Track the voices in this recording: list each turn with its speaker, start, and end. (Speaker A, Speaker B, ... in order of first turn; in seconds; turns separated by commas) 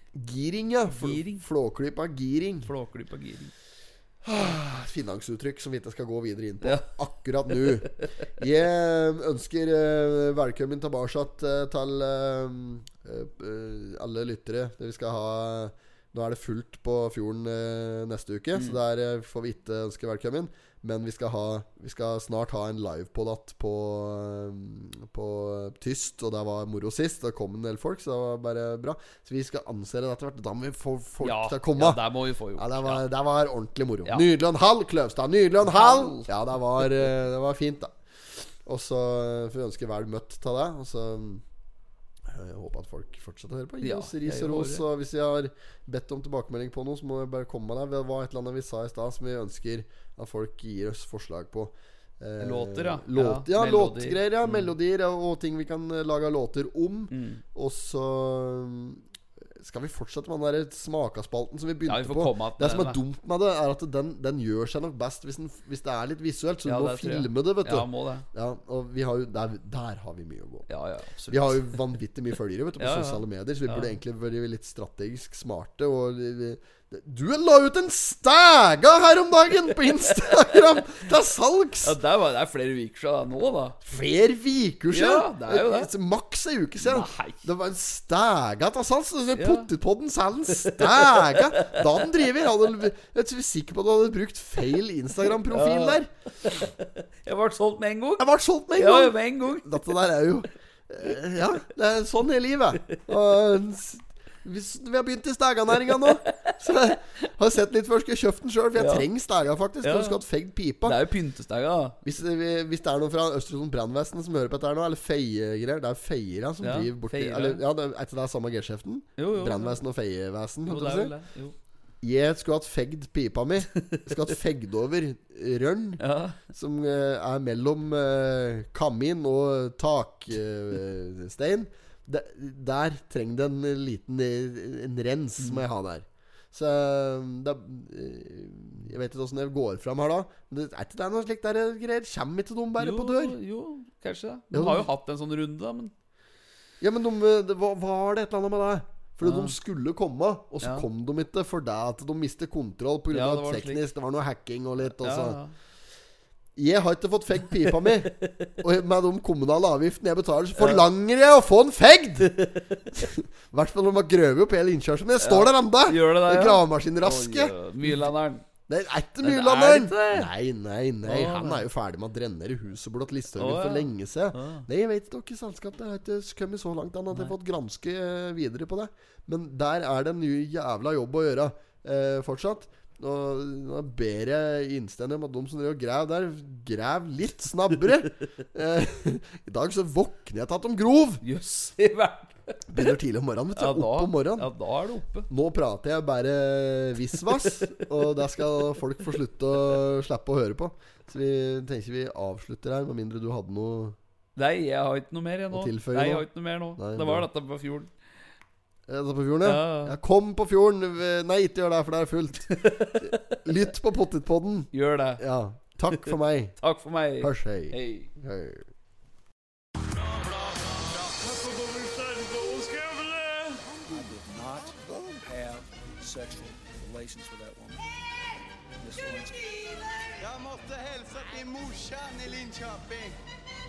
Speaker A: 0.1-2.7, Speaker B: 0.9-1.4, Speaker B: 2.6-3.5, Speaker A: 4.2-32.0, Speaker B: 7.5-8.1, Speaker B: 31.2-33.0, Speaker A: 32.6-37.9, Speaker B: 35.7-36.3, Speaker A: 38.6-41.4, Speaker A: 42.3-59.0, Speaker B: 43.8-44.9, Speaker B: 52.4-54.7, Speaker B: 57.1-57.4, Speaker A: 59.6-70.7, Speaker B: 61.9-63.0, Speaker B: 66.7-68.3, Speaker B: 70.7-71.8, Speaker A: 71.3-82.0, Speaker B: 72.8-74.0, Speaker B: 81.8-83.8, Speaker A: 83.8-96.1, Speaker B: 84.9-85.9, Speaker B: 86.8-87.5, Speaker B: 89.4-89.7, Speaker B: 90.5-92.3, Speaker B: 95.4-99.9, Speaker A: 98.2-111.0, Speaker B: 105.9-106.5, Speaker B: 108.8-109.1, Speaker B: 109.8-110.2, Speaker B: 110.8-112.0, Speaker A: 112.0-121.1, Speaker B: 116.6-117.6, Speaker B: 119.2-119.8, Speaker B: 120.7-121.5, Speaker A: 122.0-143.4, Speaker B: 123.9-124.2, Speaker B: 126.0-126.4, Speaker B: 135.4-135.7, Speaker B: 142.8-145.9, Speaker A: 144.5-144.9, Speaker A: 146.8-155.4, Speaker B: 149.2-149.6, Speaker B: 153.1-153.8, Speaker B: 154.8-155.5, Speaker A: 156.6-168.1, Speaker B: 157.6-158.5, Speaker B: 160.6-160.8, Speaker B: 162.6-163.1, Speaker B: 165.2-168.5, Speaker A: 168.7-191.2, Speaker B: 169.2-170.3, Speaker B: 171.0-171.7, Speaker B: 173.3-174.7, Speaker B: 177.1-177.4, Speaker B: 191.2-192.9, Speaker A: 192.7-194.5, Speaker B: 193.6-195.3, Speaker A: 195.3-204.0, Speaker B: 204.4-207.9, Speaker A: 205.5-207.3, Speaker A: 208.9-216.6, Speaker B: 209.4-210.0, Speaker B: 212.5-213.5, Speaker B: 214.7-215.2, Speaker B: 215.9-218.1, Speaker A: 217.2-218.7, Speaker C: 219.8-227.8, Speaker C: 228.8-230.1, Speaker D: 230.2-233.2